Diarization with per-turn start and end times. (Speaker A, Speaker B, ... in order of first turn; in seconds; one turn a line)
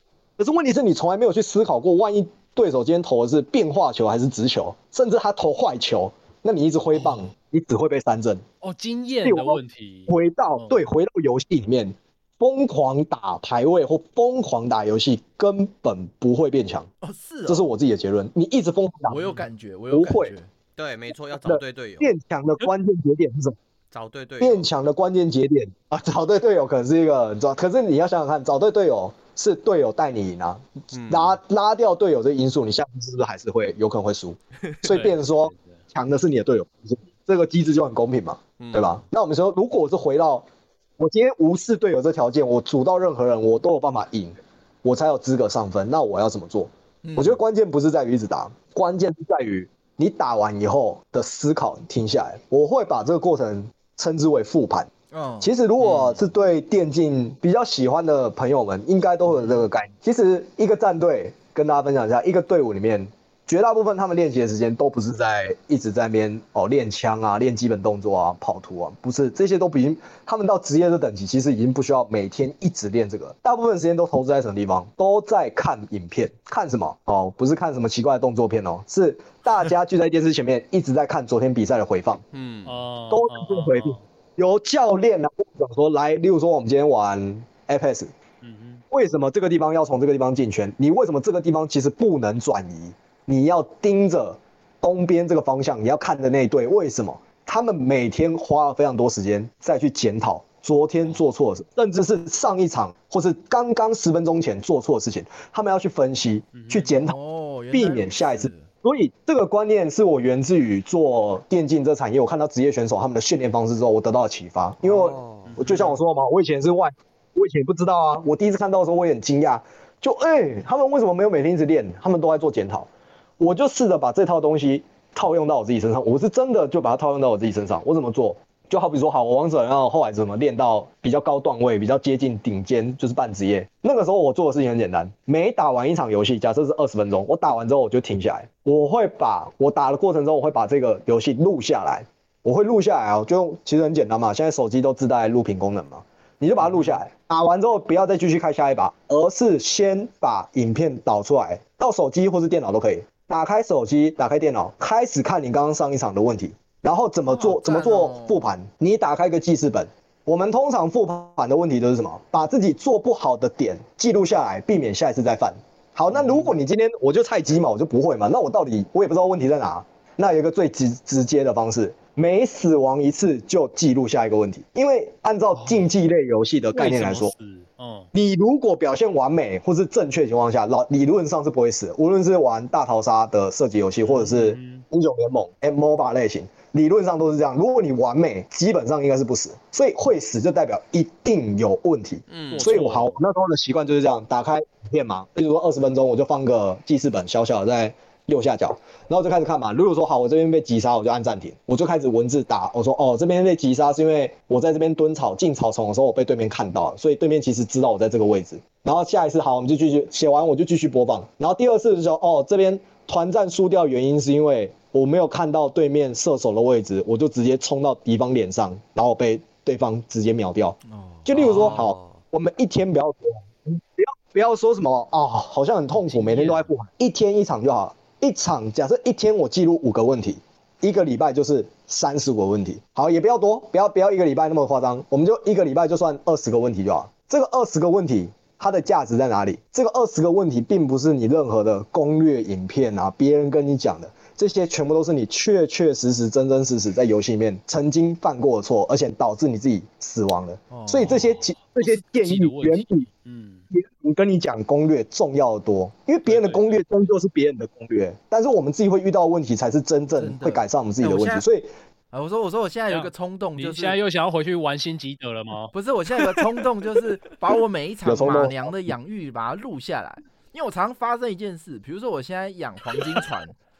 Speaker A: 0.4-8.4
Speaker B: 8.6-10.8
Speaker A: 9.2-16.9
Speaker C: 17.0-17.7
Speaker A: 17.5-19.4
Speaker C: 19.1-20.5
Speaker A: 19.9-20.3
Speaker D: 20.8-22.1
Speaker A: 21.4-23.6
Speaker D: 23.9-24.7
Speaker A: 24.4-40.4
Speaker D: 30.9-31.4
Speaker B: 34.8-35.8
Speaker D: 38.6-39.0
Speaker A: 41.0-82.2
Speaker C: 47.0-47.4
Speaker C: 55.1-55.5
Speaker D: 82.3-82.8
Speaker B: 82.6-84.0
Speaker A: 83.1-88.1
Speaker B: 88.4-88.8
Speaker A: 88.9-107.2
Speaker B: 106.5-106.9
Speaker C: 107.0-108.7
Speaker A: 107.7-122.9
Speaker D: 114.8-115.7
Speaker B: 115.5-116.0
Speaker A: 123.4-177.3
Speaker B: 146.6-146.9
Speaker C: 157.3-158.5
Speaker B: 166.1-166.5
Speaker B: 175.5-175.9
Speaker B: 176.7-178.1
Speaker A: 178.1-253.1
Speaker B: 184.0-184.8
Speaker D: 192.3-192.8
Speaker B: 192.5-193.2
Speaker C: 220.8-221.8
Speaker D: 221.3-222.2
Speaker C: 226.2-226.7
Speaker C: 250.7-251.4
Speaker B: 251.0-253.6
Speaker A: 253.7-261.7
Speaker B: 256.2-256.6
Speaker C: 260.1-261.4
Speaker C: 262.1-264.0
Speaker B: 262.9-265.7
Speaker C: 265.7-273.6
Speaker A: 268.0-268.7